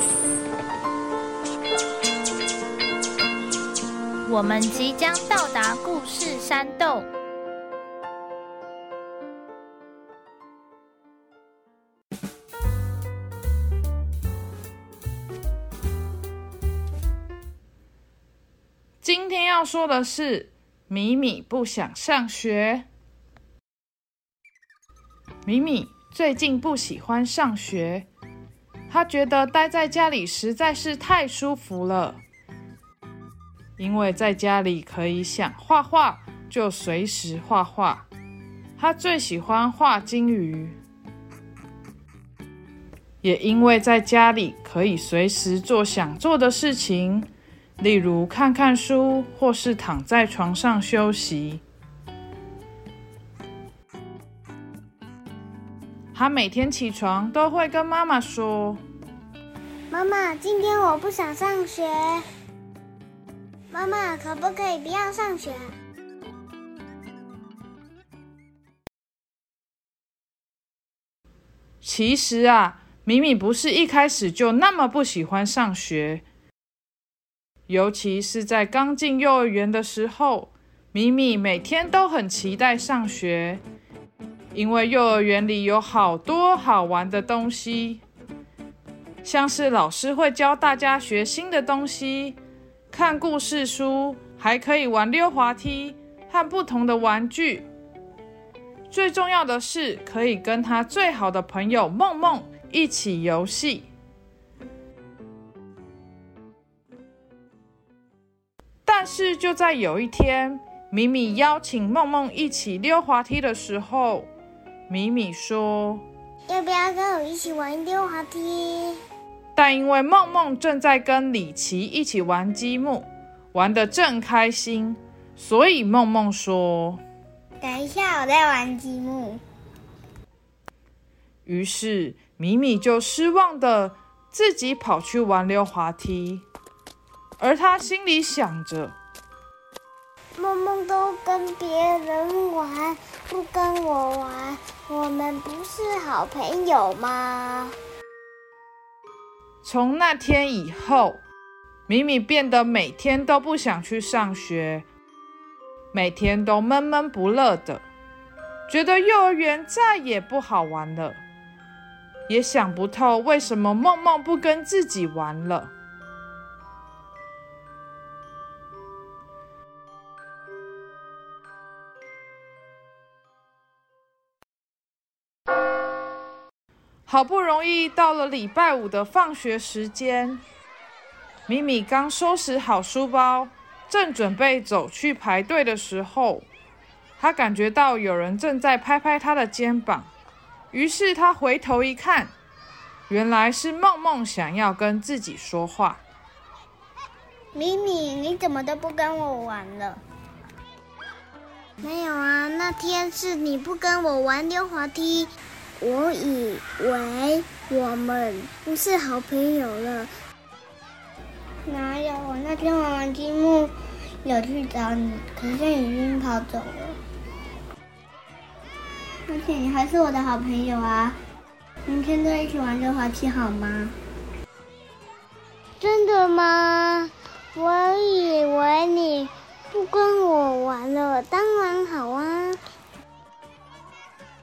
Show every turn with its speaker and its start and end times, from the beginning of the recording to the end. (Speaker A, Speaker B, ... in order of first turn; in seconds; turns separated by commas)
Speaker A: 4.2-7.1, Speaker B: 19.0-22.9, Speaker B: 25.4-28.1, Speaker B: 28.9-32.2, Speaker B: 33.8-38.1, Speaker B: 38.8-40.8, Speaker B: 43.2-51.6, Speaker B: 56.1-58.8, Speaker C: 59.9-62.2, Speaker C: 63.7-65.7, Speaker B: 71.8-76.2, Speaker B: 77.7-83.6, Speaker B: 84.5-88.0, Speaker B: 89.2-92.4, Speaker B: 92.9-97.6, Speaker B: 98.9-103.9, Speaker B: 108.8-114.3, Speaker B: 114.9-116.0, Speaker C: 116.5-119.0, Speaker B: 119.5-127.0, Speaker C: 127.6-129.4, Speaker B: 131.4-136.4, Speaker B: 137.4-138.9, Speaker C: 140.3-147.8, Speaker B: 149.6-151.2, Speaker B: 151.9-154.8, Speaker B: 155.9-157.8, Speaker B: 158.7-161.2, Speaker B: 162.3-165.7, Speaker B: 177.1-180.4, Speaker B: 181.5-186.4, Speaker B: 187.2-190.1, Speaker B: 190.7-192.3, Speaker B: 193.1-196.0, Speaker C: 197.5-200.0, Speaker C: 201.8-210.1, Speaker C: 211.6-217.0, Speaker C: 219.3-221.2, Speaker C: 221.9-223.9, Speaker C: 225.8-232.6